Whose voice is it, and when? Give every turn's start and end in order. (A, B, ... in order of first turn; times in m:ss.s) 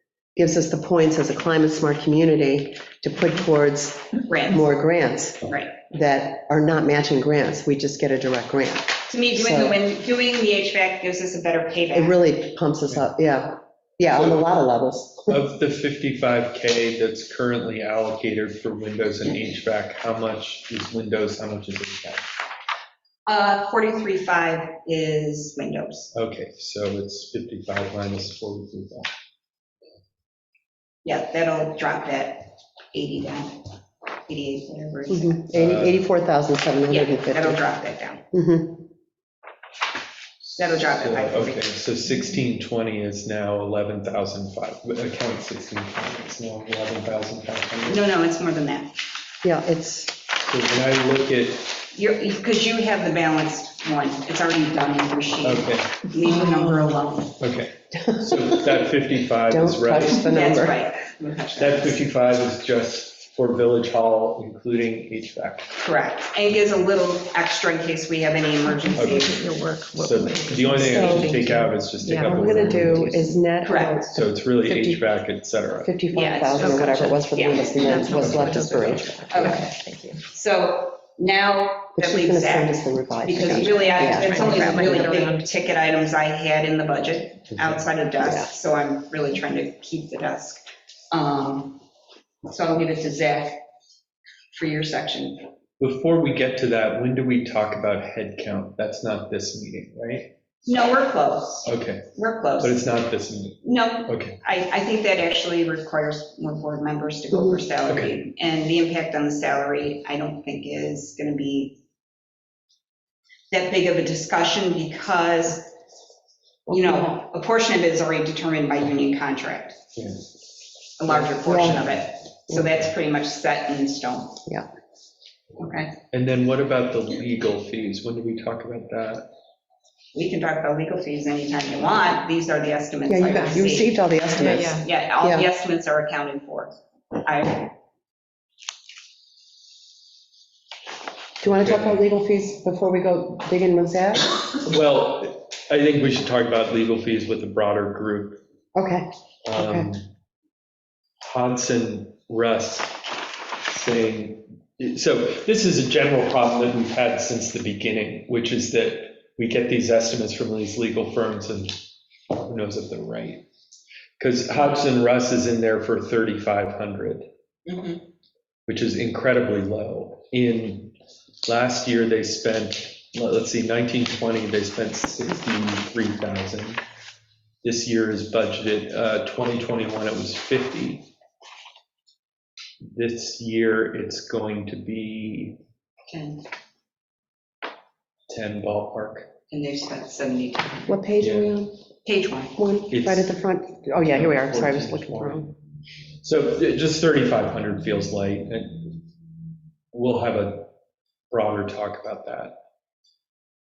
0:00.4-0:09.8 A
0:04.3-0:04.7 B
0:05.4-0:05.8 B
0:09.1-0:12.2 B
0:11.9-0:15.4 A
0:14.1-0:14.4 C
0:15.3-0:22.2 C
0:23.2-0:26.1 B
0:26.1-0:29.1 C
0:31.0-0:33.7 B
0:34.2-0:35.4 B
0:35.1-0:37.6 A
0:35.5-0:36.0 C
0:36.9-0:38.2 B
0:38.3-0:38.8 A
0:40.4-0:48.0 C
0:40.6-0:41.7 B
0:47.9-0:48.9 B
0:49.4-0:50.2 A
0:50.4-0:51.7 C
0:51.9-0:57.4 B
0:55.4-0:56.1 C
0:57.4-1:00.2 C
0:58.0-0:58.8 A
0:59.5-1:00.8 A
1:00.0-1:02.0 B
1:01.6-1:05.7 C
1:05.8-1:09.4 B
1:08.6-1:13.1 D
1:09.0-1:09.3 C
1:10.0-1:13.3 C
1:10.8-1:11.4 A
1:12.2-1:15.0 A
1:13.6-1:14.0 B
1:14.1-1:15.9 C
1:15.8-1:19.0 A
1:16.1-1:18.6 B
1:16.3-1:20.2 D
1:18.2-1:18.6 C
1:19.3-1:19.7 B
1:20.3-1:31.8 B
1:22.0-1:25.0 A
1:23.3-1:25.5 D
1:28.2-1:28.5 A
1:32.4-1:33.6 B
1:34.5-1:35.4 B
1:35.8-1:40.3 C
1:40.6-1:43.0 B
1:41.6-1:44.4 C
1:43.6-1:51.8 B
1:47.3-1:47.6 A
1:47.9-1:48.1 C
1:53.5-1:55.7 B
1:56.7-1:59.8 B
2:01.0-2:04.4 B
2:01.4-2:01.8 A
2:05.6-2:05.9 B
2:06.1-2:09.3 C
2:10.1-2:13.9 B
2:13.1-2:15.4 A
2:14.4-2:14.9 D
2:14.6-2:17.7 B
2:21.4-2:24.4 A
2:21.4-2:22.0 C
2:24.6-2:28.4 C
2:28.7-2:29.9 A
2:29.4-2:30.1 C
2:31.2-2:33.0 C
2:33.7-2:43.4 C
2:44.2-2:47.2 C
2:47.6-2:48.0 B
2:48.7-2:56.8 C
2:57.6-3:01.1 C
3:02.9-3:05.6 C
3:06.1-3:06.4 B
3:08.3-3:09.3 C
3:09.5-3:11.0 B
3:10.9-3:11.8 A
3:11.2-3:11.6 C
3:12.0-3:12.6 B
3:12.6-3:15.5 A
3:12.9-3:13.4 C
3:13.9-3:15.5 C
3:16.2-3:19.0 C
3:19.9-3:20.7 C
3:21.3-3:22.5 C